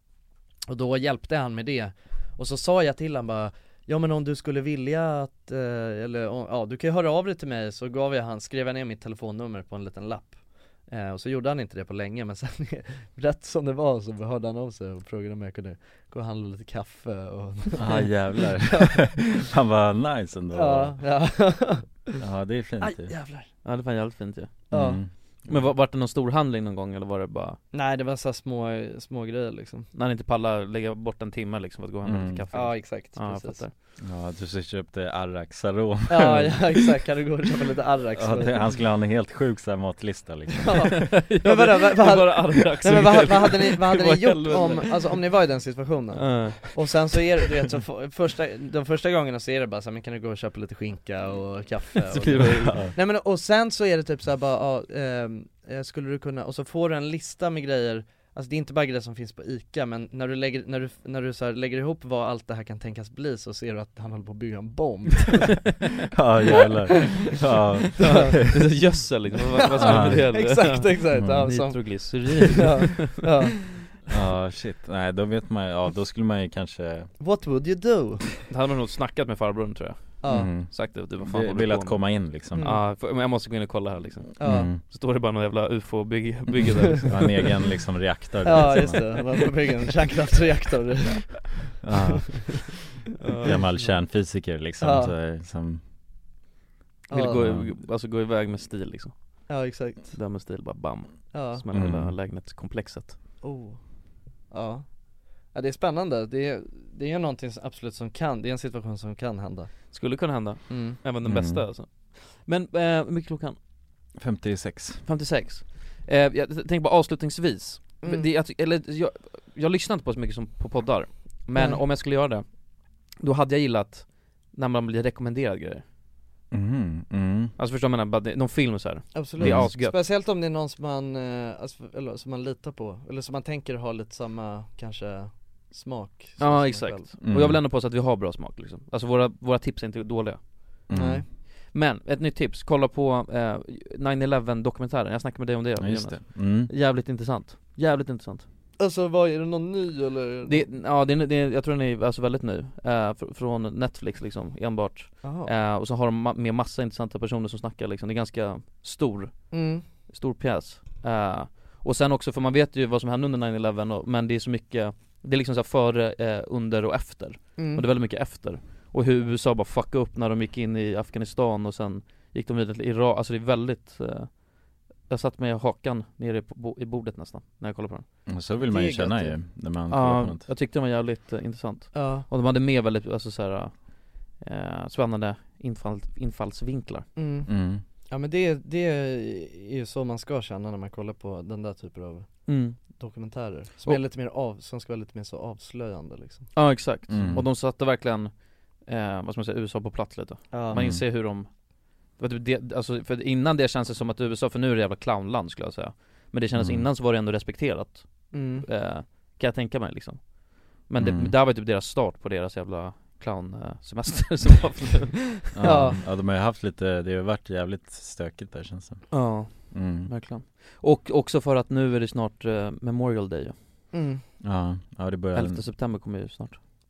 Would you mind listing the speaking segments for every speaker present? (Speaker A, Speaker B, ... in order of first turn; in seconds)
Speaker A: 0.7-19.0, 20.5-22.2, 22.8-23.5, 24.7-25.0, 27.7-29.9, 32.5-33.6, 36.1-38.8, 40.6-65.8, 68.0-68.5, 69.6-73.8, 77.2-78.3, 80.2-80.5, 82.5-82.8, 84.4-84.7, 88.4-91.8, 93.3-93.9, 94.8-95.1, 97.1-97.5, 99.5-100.2, 101.3-101.6, 103.4-103.8, 104.5-104.9, 105.5-109.9, 110.7-111.0, 118.0-118.3, 121.5-121.8, 129.1-137.1, 140.9-141.2, 148.8-150.6, 155.2-155.5, 159.5-159.8, 167.6-167.8, 178.6-179.4, 181.9-182.2, 187.2-187.5, 188.1-196.5, 200.5-200.8, 208.3-208.7, 215.6-216.0, 223.9-224.2
Speaker B: 17.8-21.0, 22.2-23.1, 24.7-25.7, 32.0-32.4, 34.0-36.9, 38.2-41.0, 52.1-52.9, 66.1-68.5, 69.8-70.4, 71.2-71.5, 74.1-77.1, 80.3-82.7, 84.4-84.8, 86.6-89.3, 91.8-92.7, 93.4-95.8, 97.3-97.7, 101.7-102.1, 111.2-111.7, 114.1-115.0, 126.5-127.5, 129.4-129.7, 137.2-137.6, 140.9-141.2, 145.8-146.7, 178.3-180.4, 187.5-187.8, 197.1-197.4, 200.7-201.0, 206.5-206.9, 211.0-211.3, 215.5-220.1, 224.4-225.6
Speaker C: 23.6-24.6, 25.5-27.6, 29.9-33.7, 41.0-45.1, 46.1-46.7, 68.2-73.3, 78.5-87.5, 93.2-93.6, 97.1-99.6, 100.1-103.2, 109.9-113.6, 115.0-125.8, 127.6-130.0, 136.4-140.5, 141.7-148.4, 150.5-178.1, 179.9-187.1, 192.5-192.9, 196.5-201.5, 202.1-215.5, 219.1-223.6, 225.3-226.6